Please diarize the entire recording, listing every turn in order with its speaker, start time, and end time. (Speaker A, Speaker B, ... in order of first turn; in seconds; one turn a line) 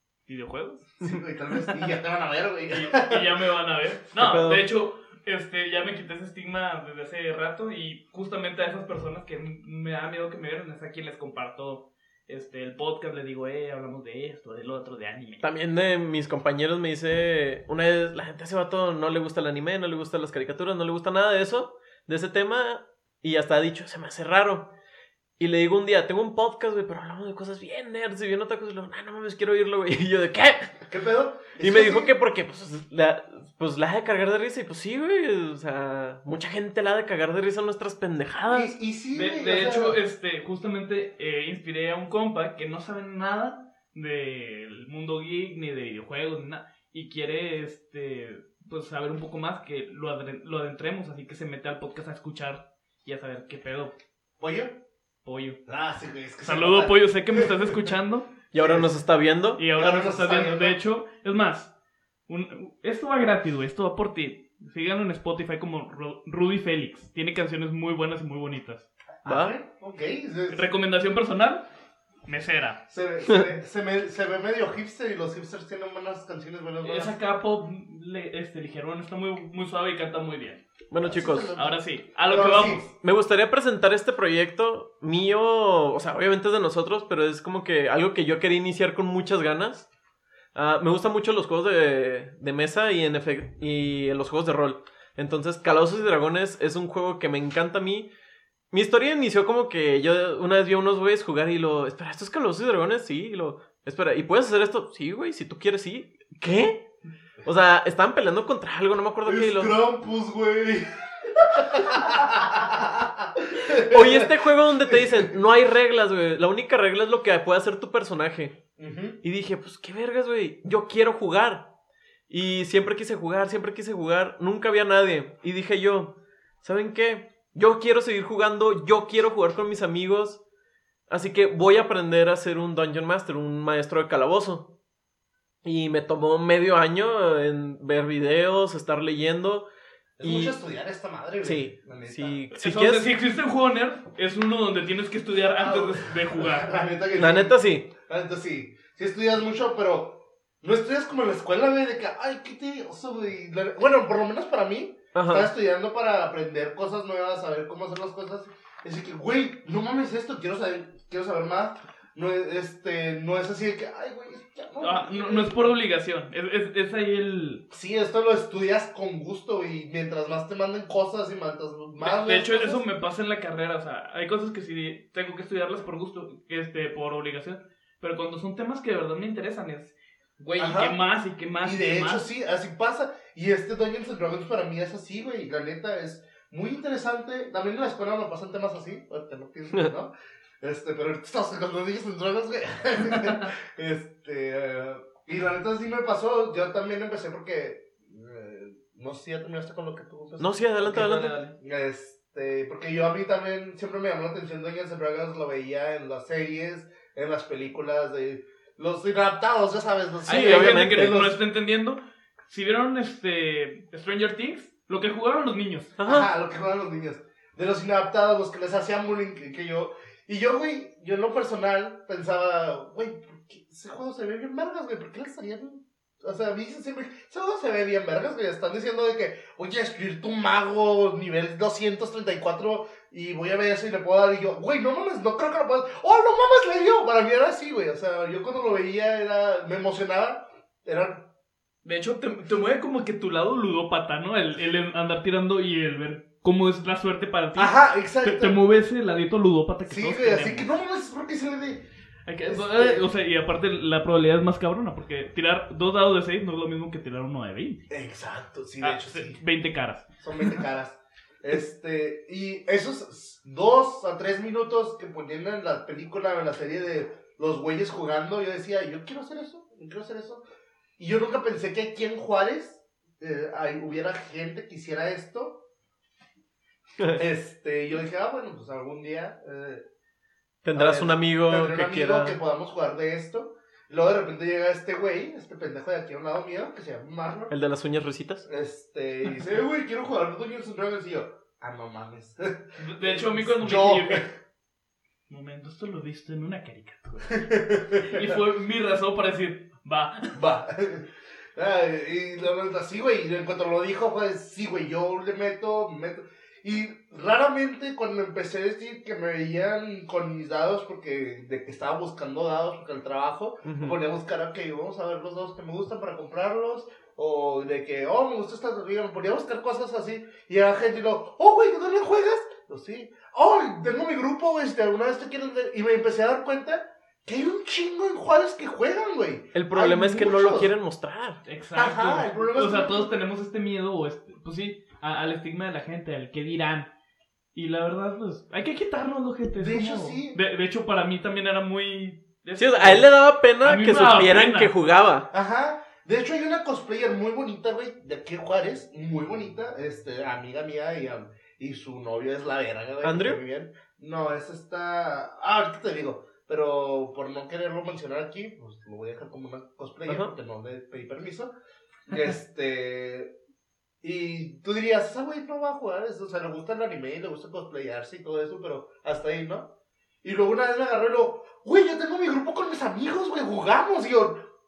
Speaker A: 0.3-1.0
Speaker B: 1.0-3.3
Speaker A: 2.7-15.5
Speaker C: 4.2-4.7
Speaker C: 15.4-24.7
Speaker C: 25.4-30.8
Speaker B: 30.9-32.1
Speaker C: 31.6-38.8
Speaker B: 38.5-40.0
Speaker A: 39.1-54.0
Speaker B: 54.4-54.8
Speaker A: 55.2-55.6
Speaker B: 55.7-57.9
Speaker A: 56.4-58.3
Speaker C: 58.5-59.6
Speaker B: 58.5-58.9
Speaker A: 59.6-61.7
Speaker B: 59.8-60.8
Speaker A: 62.3-68.9
Speaker B: 69.2-70.7
Speaker C: 69.3-69.6
Speaker A: 70.5-71.7
Speaker A: 72.3-72.8
Speaker B: 72.9-77.2
Speaker A: 76.8-80.6
Speaker C: 80.9-81.5
Speaker B: 81.0-82.9
Speaker A: 81.6-82.9
Speaker C: 83.0-89.9
Speaker C: 90.5-98.1
Speaker C: 98.7-106.8
Speaker C: 107.4-109.8
Speaker B: 109.2-115.3
Speaker C: 113.7-118.6
Speaker B: 118.8-119.2
Speaker C: 119.2-121.7
Speaker C: 122.3-130.4
Speaker C: 131.1-134.7
Speaker C: 135.6-139.7
Speaker B: 140.2-142.4
Speaker C: 140.2-140.6
Speaker C: 141.4-143.1
Speaker A: 142.5-146.8
Speaker B: 145.6-165.7
Speaker C: 147.2-147.9
Speaker C: 155.2-155.5
Speaker A: 164.8-167.7
Speaker B: 167.7-172.8
Speaker A: 172.0-182.3
Speaker B: 180.6-181.0
Speaker B: 181.6-211.4
Speaker C: 200.4-201.4
Speaker A: 200.8-201.6
Speaker A: 210.3-215.9
Speaker C: 210.3-211.2
Speaker C: 216.0-216.3
Speaker B: 216.0-241.3
Speaker A: 241.8-250.7
Speaker B: 247.6-248.6
Speaker B: 249.9-251.9
Speaker A: 252.3-257.9
Speaker B: 252.4-253.1
Speaker B: 257.9-259.4
Speaker A: 258.8-260.6
Speaker B: 260.2-270.4
Speaker B: 271.0-275.6
Speaker B: 277.1-279.9
Speaker C: 280.6-282.4
Speaker B: 280.7-287.5
Speaker C: 287.5-288.4
Speaker B: 288.5-294.4
Speaker A: 292.8-294.3
Speaker A: 295.3-300.3
Speaker B: 297.3-298.4
Speaker B: 300.3-330.7
Speaker C: 313.6-314.0
Speaker C: 329.5-331.4
Speaker A: 331.4-336.9
Speaker B: 331.8-333.1
Speaker A: 337.6-344.7
Speaker B: 339.6-340.4
Speaker C: 342.6-345.3
Speaker B: 345.3-361.5
Speaker C: 353.0-353.4
Speaker C: 360.1-360.3
Speaker B: 362.1-363.3
Speaker B: 364.0-369.7
Speaker B: 370.2-374.5